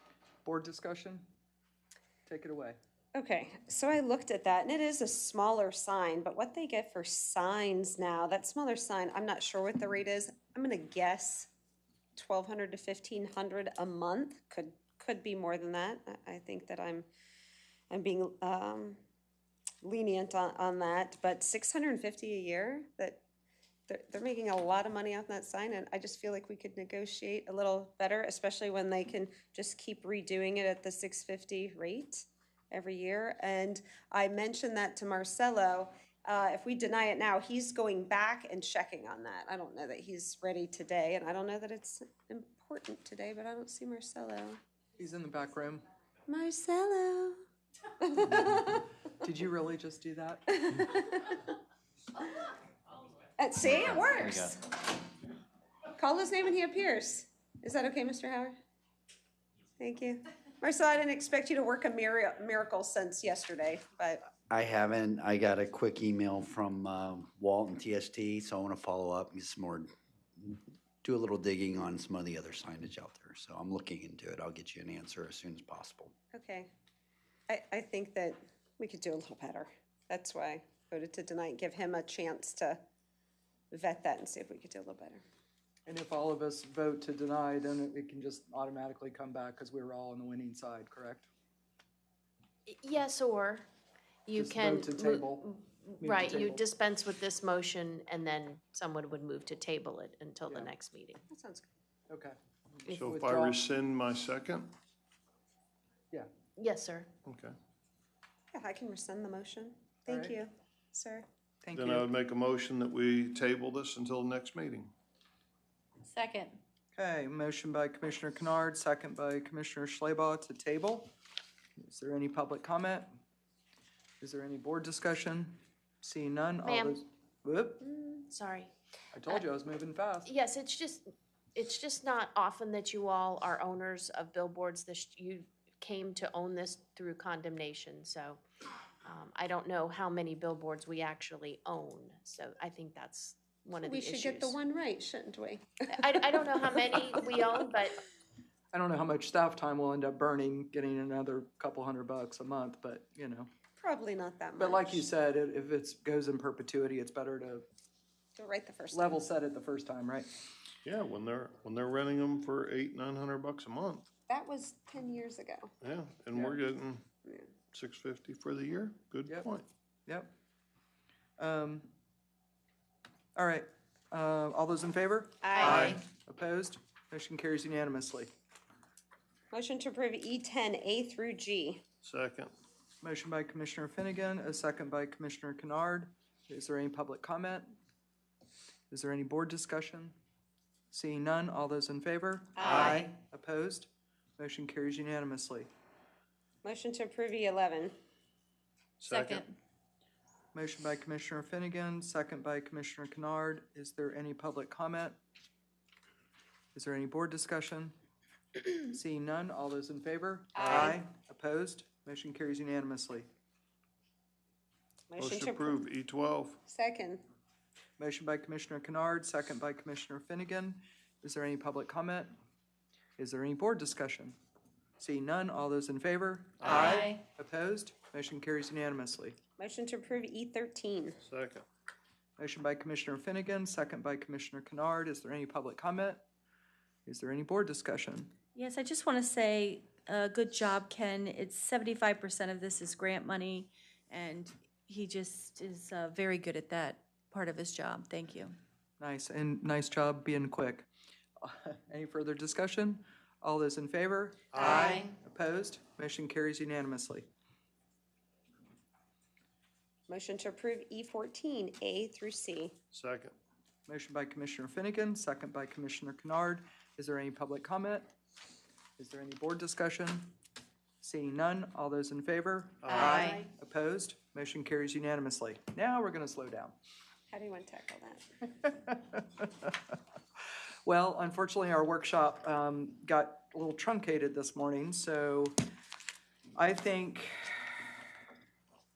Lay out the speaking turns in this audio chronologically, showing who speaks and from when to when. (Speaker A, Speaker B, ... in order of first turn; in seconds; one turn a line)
Speaker A: 0.4-1.2
Speaker A: 2.2-2.8
Speaker B: 3.1-11.5
Speaker B: 12.2-17.1
Speaker B: 17.9-19.0
Speaker B: 19.8-23.2
Speaker B: 23.9-44.6
Speaker A: 45.0-45.8
Speaker B: 46.3-47.4
Speaker B: 48.0-48.9
Speaker A: 49.2-50.8
Speaker B: 50.5-51.4
Speaker B: 53.4-54.9
Speaker B: 56.0-58.5
Speaker B: 59.8-64.3
Speaker C: 64.5-76.1
Speaker B: 76.3-76.7
Speaker B: 77.5-82.8
Speaker B: 83.7-85.2
Speaker A: 85.8-91.3
Speaker D: 92.7-93.7
Speaker D: 94.2-101.2
Speaker A: 94.3-95.5
Speaker A: 96.0-96.6
Speaker B: 101.3-101.7
Speaker A: 102.1-103.6
Speaker E: 102.9-104.7
Speaker D: 106.6-107.1
Speaker E: 107.2-107.5
Speaker B: 108.5-111.2
Speaker A: 110.1-110.3
Speaker A: 111.6-112.0
Speaker E: 111.7-114.9
Speaker F: 116.0-116.6
Speaker A: 116.9-121.1
Speaker A: 121.8-123.2
Speaker A: 124.2-127.8
Speaker D: 126.6-127.0
Speaker D: 128.2-128.7
Speaker A: 129.1-130.3
Speaker D: 130.2-138.4
Speaker D: 139.0-144.5
Speaker B: 143.8-146.6
Speaker D: 145.9-148.0
Speaker A: 148.7-153.5
Speaker B: 153.8-155.0
Speaker A: 154.6-157.6
Speaker B: 158.3-159.2
Speaker A: 158.9-160.3
Speaker E: 160.8-164.1
Speaker B: 164.3-165.7
Speaker E: 165.8-167.0
Speaker B: 167.2-167.5
Speaker E: 167.7-169.7
Speaker A: 170.1-170.3
Speaker A: 171.4-171.9
Speaker A: 173.3-178.3
Speaker B: 175.4-175.9
Speaker F: 175.6-175.8
Speaker E: 175.6-176.0
Speaker B: 179.5-181.8
Speaker E: 182.0-182.5
Speaker A: 183.0-187.7
Speaker A: 188.9-190.1
Speaker A: 190.9-195.7
Speaker F: 192.6-193.0
Speaker B: 196.6-197.9
Speaker E: 199.0-199.4
Speaker F: 199.1-199.5
Speaker A: 200.5-205.2
Speaker A: 206.7-207.9
Speaker A: 208.8-213.2
Speaker B: 210.6-211.0
Speaker B: 215.1-215.8
Speaker E: 215.2-216.6
Speaker B: 216.7-217.2
Speaker A: 218.0-222.3
Speaker A: 223.2-224.3
Speaker A: 225.0-229.3
Speaker E: 226.6-226.9
Speaker F: 226.7-227.2
Speaker B: 229.6-231.2
Speaker E: 231.2-231.6
Speaker A: 232.4-236.2
Speaker A: 237.1-238.3
Speaker F: 238.5-248.6
Speaker A: 249.0-250.9
Speaker A: 251.4-257.2
Speaker E: 254.5-255.1
Speaker F: 254.6-255.1
Speaker B: 260.1-262.7
Speaker E: 262.9-263.3
Speaker A: 263.9-268.1
Speaker A: 269.0-270.3
Speaker A: 271.0-276.7
Speaker E: 272.8-273.2
Speaker F: 272.9-273.5
Speaker B: 277.3-278.2
Speaker A: 278.9-279.4
Speaker A: 280.8-285.5
Speaker A: 286.6-287.5